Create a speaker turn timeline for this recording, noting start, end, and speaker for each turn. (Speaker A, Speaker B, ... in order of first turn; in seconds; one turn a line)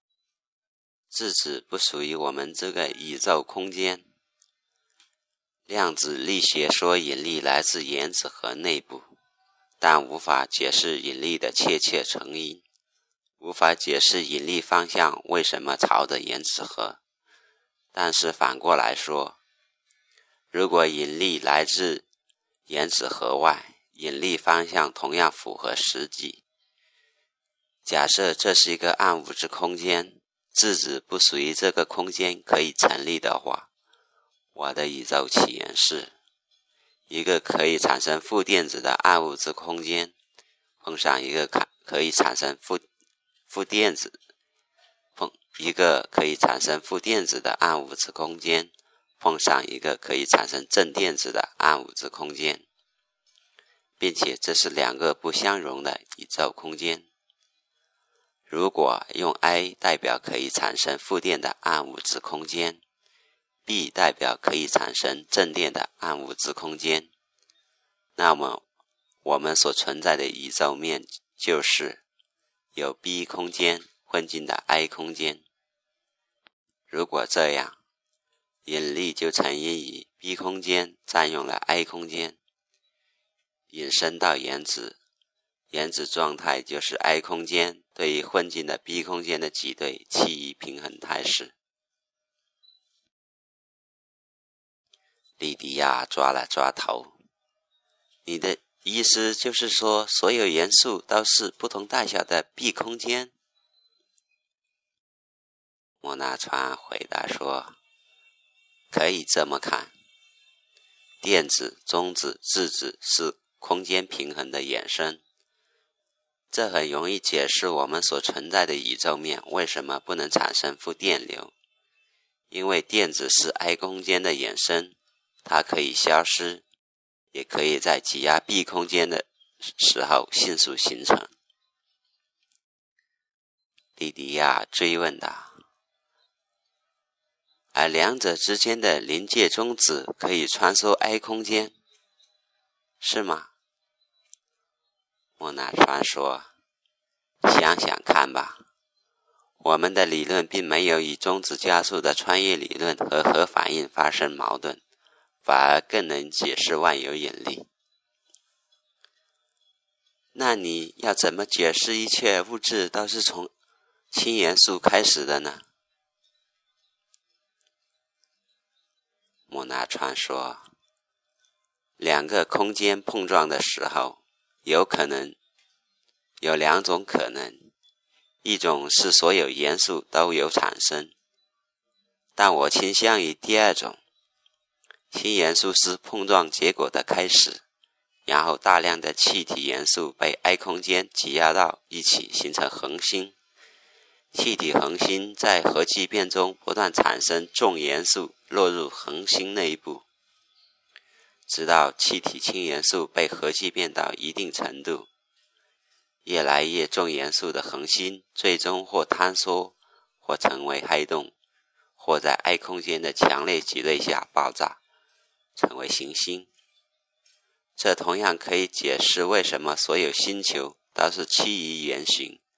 Speaker A: 1.1-4.1
Speaker A: 5.7-9.1
Speaker A: 9.8-12.6
Speaker A: 13.4-17.0
Speaker A: 17.9-19.4
Speaker A: 20.5-22.0
Speaker A: 22.7-26.4
Speaker A: 27.8-33.7
Speaker A: 34.5-36.1
Speaker A: 37.1-40.1
Speaker A: 40.8-42.8
Speaker A: 43.5-44.2
Speaker A: 45.1-52.6
Speaker A: 54.0-57.1
Speaker A: 58.5-62.8
Speaker A: 63.6-67.1
Speaker A: 68.2-68.6
Speaker A: 69.2-72.0
Speaker A: 72.7-75.4
Speaker A: 76.9-77.8
Speaker A: 78.7-82.4
Speaker A: 83.7-85.0
Speaker A: 85.7-91.5
Speaker A: 95.4-97.2
Speaker A: 98.2-103.3
Speaker A: 106.0-107.8
Speaker A: 108.9-109.9
Speaker A: 111.2-115.2
Speaker A: 116.5-121.5
Speaker A: 122.5-126.6
Speaker A: 127.3-131.3
Speaker A: 134.0-135.6
Speaker A: 137.7-141.7
Speaker A: 143.0-143.5
Speaker A: 145.4-146.5
Speaker A: 147.4-148.6
Speaker A: 149.6-154.8
Speaker A: 155.4-157.7
Speaker A: 160.3-163.5
Speaker A: 164.1-165.7
Speaker A: 169.5-170.7
Speaker A: 172.0-175.4
Speaker A: 176.4-177.7
Speaker A: 178.4-181.1
Speaker A: 182.3-184.0
Speaker A: 185.1-187.6
Speaker A: 188.2-193.3
Speaker A: 194.3-200.0
Speaker A: 201.5-205.1
Speaker A: 206.2-211.3
Speaker A: 212.0-214.8
Speaker A: 215.6-216.5
Speaker A: 217.8-222.4